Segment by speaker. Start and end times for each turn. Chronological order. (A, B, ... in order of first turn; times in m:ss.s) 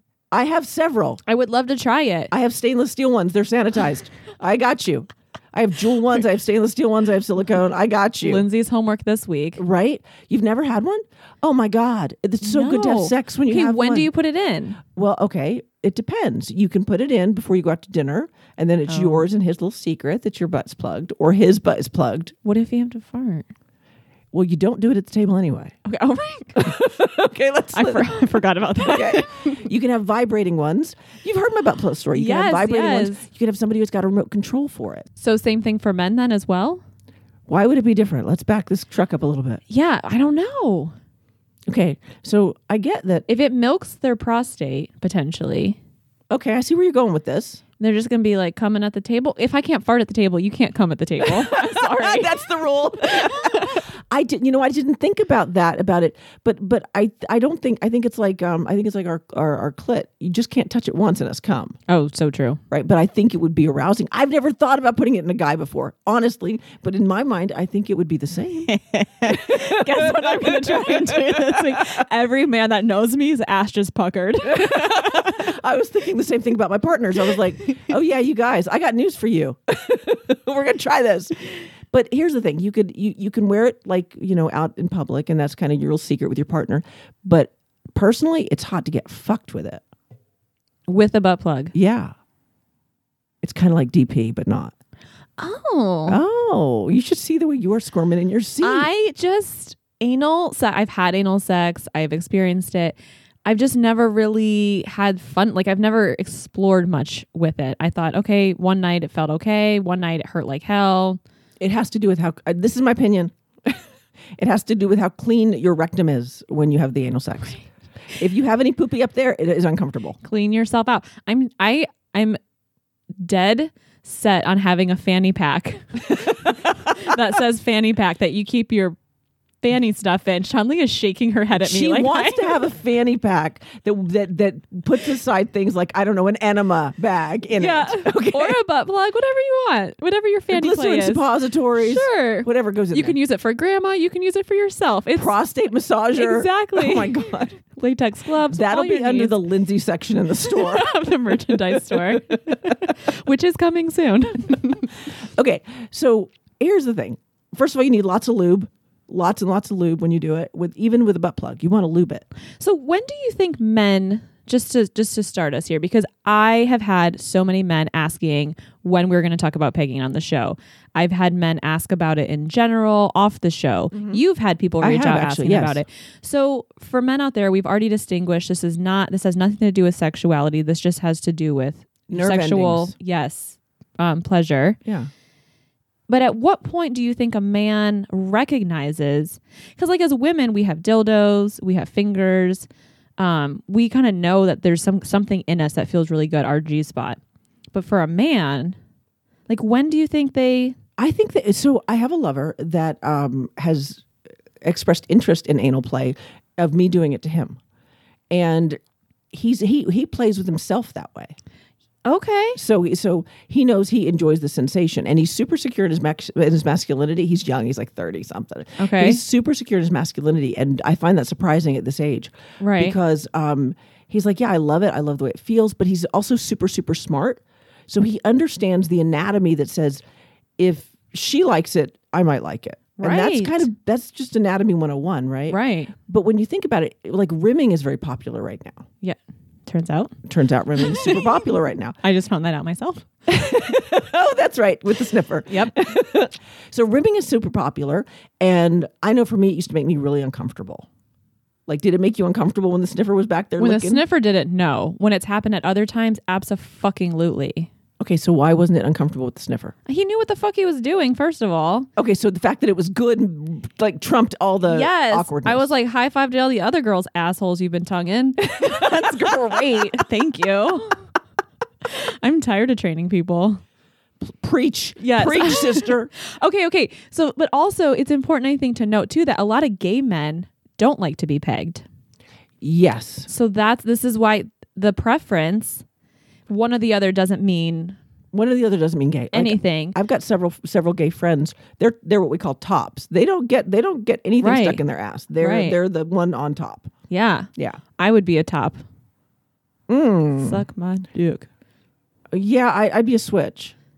0:00.3-0:01.2 A
0:01.2-0:02.3 B
0:02.3-0:08.4 A
0:08.2-0:09.6 B
0:09.6-0:14.1 A
0:12.4-0:14.8 B
0:14.9-0:22.3 A
0:18.9-0:19.3 B
0:22.4-0:23.5 B
0:24.3-0:25.8 A
0:25.8-0:26.7 B
0:26.5-0:35.1 A
0:27.7-0:29.6 B
0:32.1-0:33.2 B
0:35.2-0:36.8 B
0:37.5-0:39.6 A
0:39.7-0:40.9 B
0:41.7-0:43.2 A
0:43.3-0:45.8 B
0:46.3-0:47.6 A
0:47.8-0:52.4 B
0:51.3-1:01.8 A
0:53.1-0:53.8 B
1:01.9-1:02.6 B
1:02.7-1:08.7 A
1:08.7-1:15.4 B
1:09.2-1:12.0 A
1:14.5-1:29.8 A
1:30.9-1:31.7 B
1:31.7-1:32.1 A
1:33.4-1:34.7 A
1:35.4-1:36.2 B
1:36.1-1:38.9 A
1:38.6-1:51.2 B
1:51.6-1:53.8 A
1:54.4-1:57.6 A
1:58.2-2:00.2 A
2:00.2-2:02.4 B
2:03.2-2:09.0 B
2:09.6-2:12.5 B
2:11.6-2:18.6 A
2:17.6-2:25.3 B
2:20.5-2:23.2 A
2:25.2-2:27.5 A
2:26.1-2:29.4 B
2:28.5-2:30.9 A
2:30.5-2:34.9 B
2:35.2-2:42.2 A
2:42.6-3:04.8 B
2:53.9-2:54.2 A
2:54.8-2:55.8 A
3:02.1-3:02.9 A
3:04.8-3:05.1 A
3:06.1-3:12.7 B
3:13.2-3:17.2 B
3:17.7-3:18.8 B
3:19.5-3:20.8 B
3:21.0-3:24.0 A
3:24.6-3:27.6 A
3:28.3-3:28.8 A
3:29.3-3:31.3 A
3:32.0-3:32.6 B
3:32.6-3:50.0 A
3:38.8-3:39.2 B
3:42.6-3:43.0 B
3:50.6-3:58.8 A
3:53.0-3:53.7 B
3:55.5-3:55.9 B
3:59.0-4:00.1 B
4:00.2-4:02.0 A
4:00.8-4:01.2 B
4:02.0-4:03.1 B
4:03.3-4:10.9 A
4:05.5-4:05.8 B
4:11.7-4:14.0 A
4:13.6-4:17.7 B
4:18.0-4:19.7 A
4:19.9-4:21.9 B
4:22.0-4:25.7 A
4:24.7-4:31.0 B
4:28.4-4:30.0 A
4:31.8-4:33.6 B
4:34.2-4:36.1 A
4:35.0-4:41.8 B
4:42.6-4:43.3 A
4:43.3-4:45.8 B
4:46.5-4:48.0 B
4:48.3-4:56.9 A
4:49.3-4:50.0 B
4:54.4-4:54.8 B
4:55.4-4:55.8 B
4:57.1-4:58.8 B
4:59.9-5:00.6 A
5:00.4-5:01.5 B
5:02.3-5:03.7 A